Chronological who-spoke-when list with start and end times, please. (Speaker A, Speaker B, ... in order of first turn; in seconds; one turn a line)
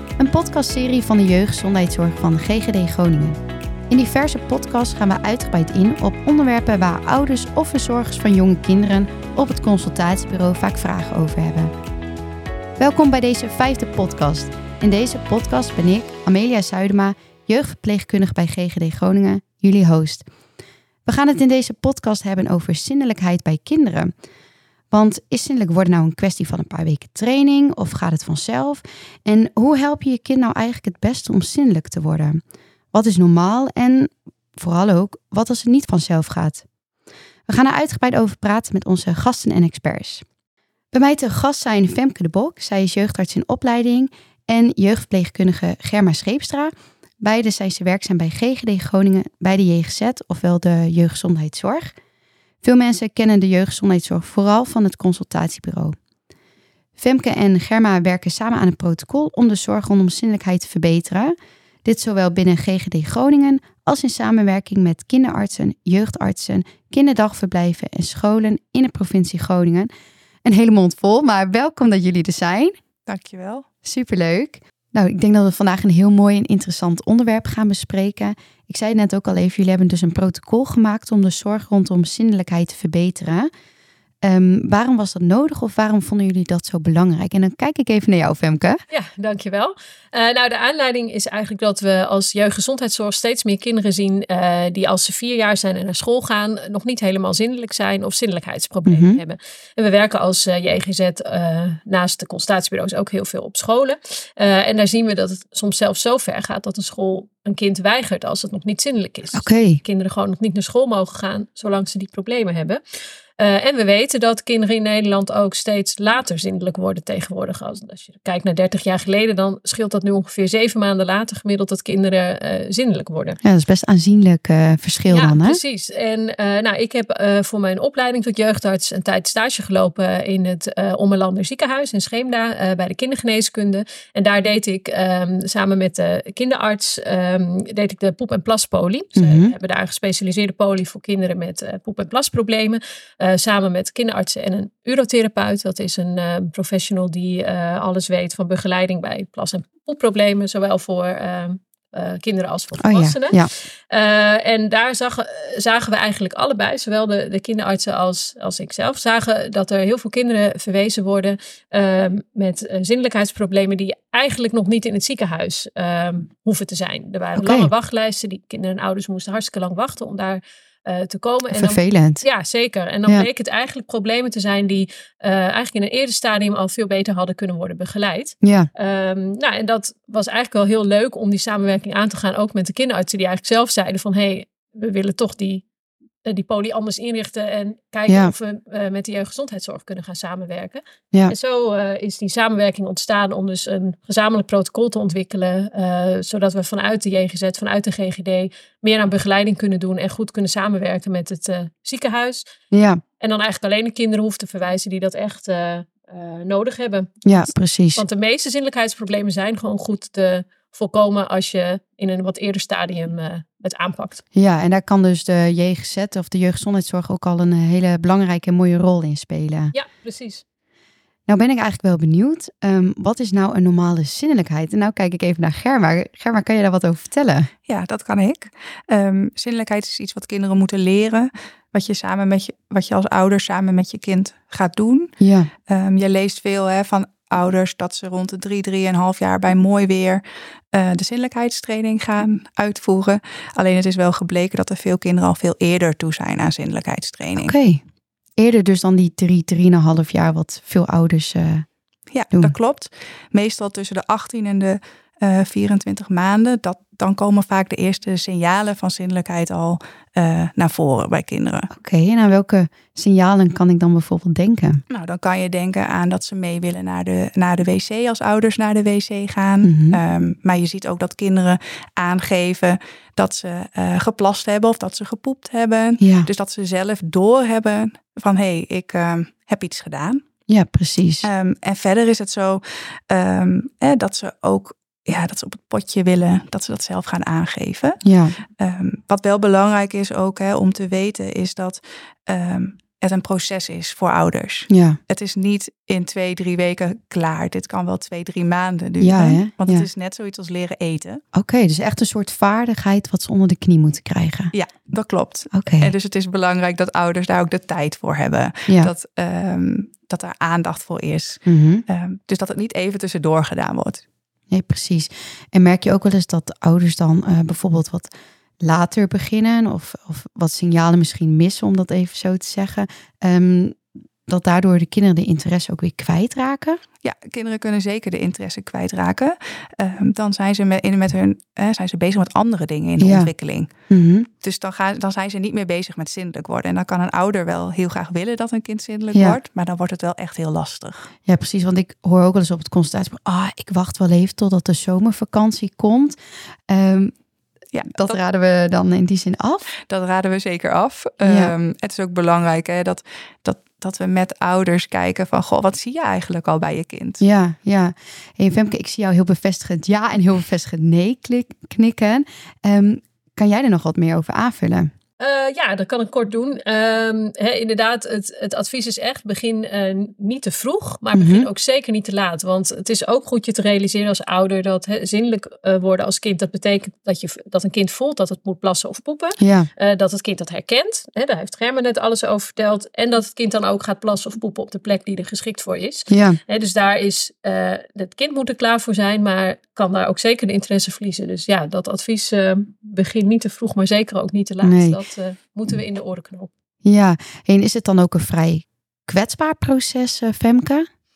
Speaker A: 0.2-11.7
Speaker A: 12.8-20.2
Speaker A: 21.1-24.1
Speaker A: 24.9-32.4
Speaker A: 32.9-36.6
Speaker A: 37.5-40.2
Speaker A: 40.9-52.0
Speaker A: 52.6-56.0
Speaker A: 57.0-69.9
Speaker A: 70.4-72.7
Speaker B: 73.1-73.7
Speaker A: 73.8-83.5
Speaker A: 84.2-88.8
Speaker C: 88.9-112.8
Speaker A: 98.9-99.2
Speaker A: 109.3-109.8
Speaker C: 113.4-123.4
Speaker A: 123.4-125.6
Speaker C: 125.1-153.4
Speaker A: 139.2-139.5
Speaker A: 152.8-153.5
Speaker C: 153.9-185.6
Speaker A: 167.4-167.7
Speaker A: 171.5-172.2
Speaker A: 178.4-178.7
Speaker C: 186.2-202.4
Speaker A: 188.1-188.3
Speaker A: 202.7-203.0
Speaker C: 203.2-214.2
Speaker A: 207.2-208.0
Speaker A: 214.3-219.7
Speaker C: 219.7-220.4
Speaker A: 221.3-227.5
Speaker B: 227.7-235.1
Speaker A: 235.2-235.5
Speaker B: 235.7-247.6
Speaker A: 247.4-247.8
Speaker A: 248.4-251.7
Speaker B: 252.1-261.7
Speaker A: 261.7-264.8
Speaker B: 264.9-280.2
Speaker A: 269.6-270.0
Speaker A: 276.0-276.3
Speaker A: 280.5-281.3
Speaker B: 281.2-288.0
Speaker A: 288.0-288.4
Speaker B: 288.6-301.2
Speaker A: 294.7-295.0
Speaker A: 299.0-299.9
Speaker A: 301.3-304.5
Speaker B: 304.5-314.1
Speaker A: 305.5-305.9
Speaker A: 308.7-308.9
Speaker A: 311.4-311.8
Speaker A: 314.5-326.8
Speaker B: 327.0-333.7
Speaker A: 333.0-333.3
Speaker A: 333.9-334.3
Speaker B: 334.4-341.1
Speaker A: 339.1-339.4
Speaker A: 341.2-346.2
Speaker A: 346.7-347.1
Speaker B: 347.7-348.2
Speaker A: 347.9-349.7
Speaker B: 349.9-357.2
Speaker A: 351.2-351.5
Speaker A: 357.2-364.9
Speaker C: 365.2-396.5
Speaker A: 371.1-371.5
Speaker A: 379.4-379.7
Speaker A: 386.1-386.4
Speaker A: 394.6-395.0
Speaker A: 396.8-400.9